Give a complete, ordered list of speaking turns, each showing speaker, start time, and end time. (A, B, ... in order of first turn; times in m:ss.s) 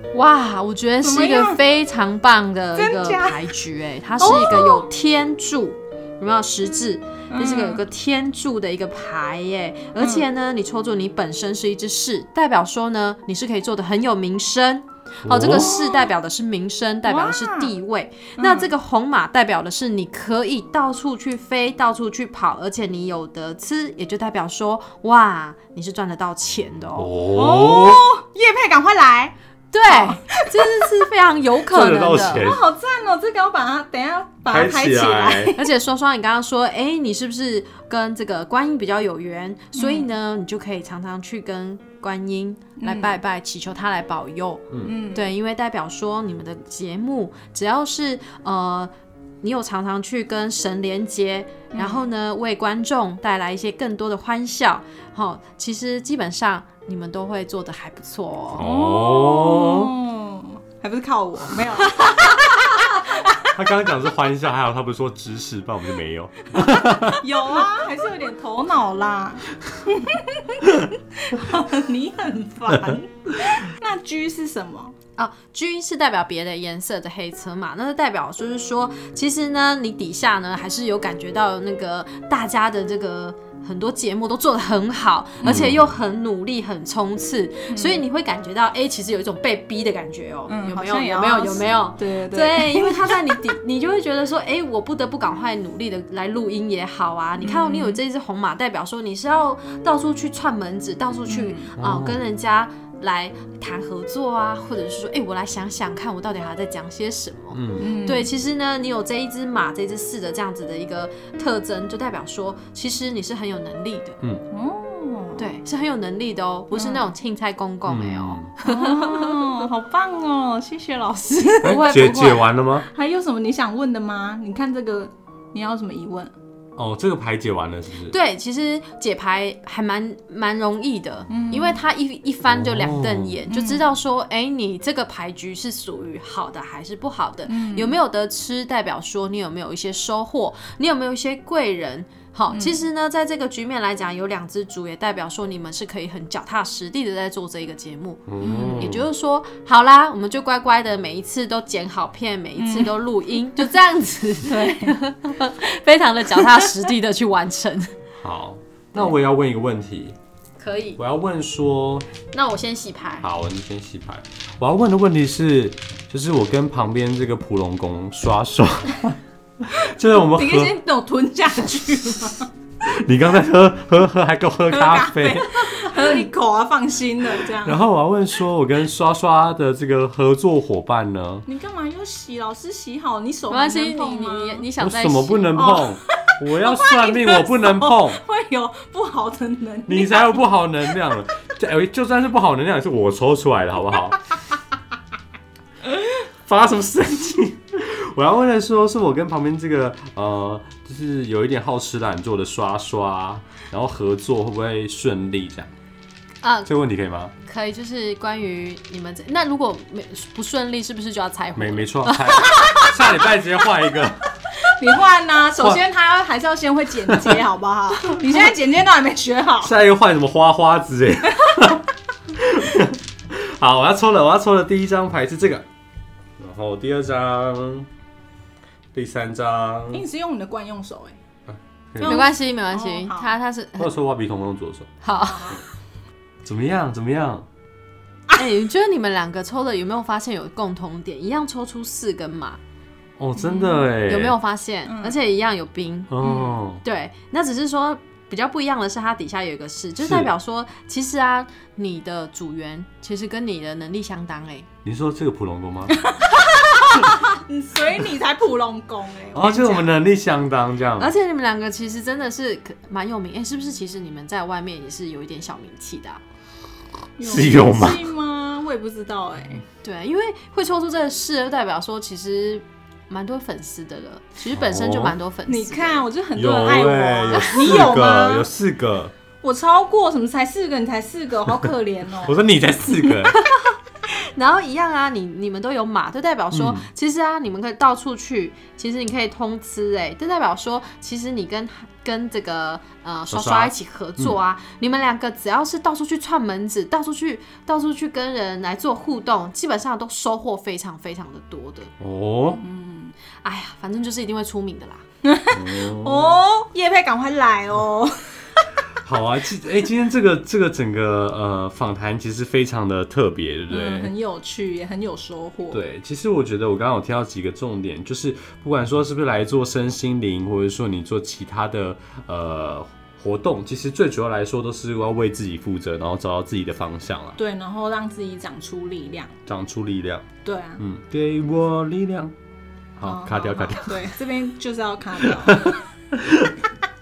0:00.1-0:27.1 A
0:01.0-0:01.6 B
0:02.8-0:03.5 B
0:04.2-0:04.8 B
0:07.3-0:07.8 B
0:10.0-0:10.3 B
0:15.2-0:15.8 C
0:15.5-0:16.1 B
0:17.0-0:17.7 B
0:18.4-0:18.7 B
0:27.0-0:28.1 C
0:27.3-0:29.3 B
0:29.7-0:32.5 A
0:29.9-0:30.8 B
0:31.7-0:32.6 C
0:32.4-0:35.7 B
0:34.5-0:35.6 C
0:35.6-0:48.9 A
0:39.8-0:40.1 B
0:42.8-0:43.2 B
0:44.8-0:45.3 B
0:49.4-0:58.6 A
0:51.7-0:52.1 B
0:58.5-0:59.9 C
0:58.6-1:03.5 B
1:03.4-1:07.2 C
1:06.6-1:14.9 B
1:15.2-1:54.2 A
1:25.4-1:25.7 B
1:25.4-1:25.9 C
1:27.7-1:28.0 B
1:30.5-1:33.4 B
1:37.4-1:38.0 B
1:41.3-1:41.7 B
1:41.8-1:42.2 C
1:47.5-1:47.8 C
1:47.8-1:48.3 B
1:54.5-1:55.5 B
1:55.4-1:59.6 A
1:56.7-1:57.1 B
1:57.9-1:58.5 C
1:58.6-2:06.3 B
2:01.6-2:02.9 C
2:01.6-2:02.5 A
2:06.8-2:08.2 C
2:08.1-2:37.9 A
2:11.3-2:11.8 B
2:12.5-2:13.4 C
2:13.5-2:13.8 B
2:17.5-2:17.9 B
2:22.5-2:22.8 B
2:28.3-2:29.1 C
2:28.4-2:29.0 B
2:32.6-2:32.9 B
2:34.4-2:35.0 B
2:36.4-2:36.6 B
2:38.2-2:40.2 C
2:40.6-2:41.0 A
2:41.0-2:42.1 C
2:42.3-2:43.3 A
2:43.2-2:50.7 C
2:49.8-2:52.5 B
2:52.8-2:55.8 C
2:54.7-2:57.8 B
2:57.5-3:01.4 C
3:01.4-3:04.6 B
3:03.5-3:05.8 A
3:04.8-3:08.2 C
3:05.6-3:10.5 B
3:09.9-3:14.2 C
3:16.2-3:25.7 C
3:26.4-3:26.7 A
3:26.6-3:27.3 C
3:27.4-3:33.2 A
3:31.6-3:34.2 C
3:34.6-3:39.7 B
3:35.6-3:35.8 C
3:37.1-3:37.4 C
3:39.6-3:45.6 C
3:46.4-3:47.9 C
3:48.9-3:50.0 C
3:49.9-3:51.2 B
3:51.5-3:52.2 C
3:52.0-3:53.3 B
3:52.0-3:53.9 A
3:53.8-3:54.9 C
3:55.0-3:55.6 A
3:55.2-3:55.6 B
3:56.4-3:57.5 C
3:58.3-4:02.6 A
4:03.2-4:04.4 C
4:03.4-4:03.8 B
4:03.9-4:06.2 A
4:04.8-4:05.2 B
4:06.1-4:06.8 C
4:06.2-4:06.6 B
4:06.8-4:14.7 A
4:10.0-4:10.3 C
4:14.8-4:16.0 C
4:15.9-4:19.9 B
4:19.3-4:21.1 C
4:21.0-4:26.2 A
4:27.2-4:29.6 B
4:27.2-4:28.0 C
4:29.8-4:36.0 A
4:34.5-4:35.2 C
4:35.5-4:38.5 B
4:36.4-4:39.1 C
4:37.3-4:37.6 A
4:39.4-4:42.4 B
4:42.2-4:43.4 C
4:43.1-5:01.9 A
4:46.5-4:46.8 C
4:53.3-4:54.4 C
5:02.0-5:02.6 C
5:02.6-5:03.1 B
5:03.4-5:05.0 A
5:05.2-5:08.4 B
5:05.5-5:06.4 C
5:09.0-5:14.1 C
5:13.7-5:15.8 B
5:15.7-5:27.4 C
5:27.4-5:29.4 B
5:29.5-5:30.3 C
5:30.4-5:30.8 B
5:30.8-5:32.3 C
5:33.0-5:34.1 C
5:33.0-5:35.8 B
5:35.4-5:36.5 C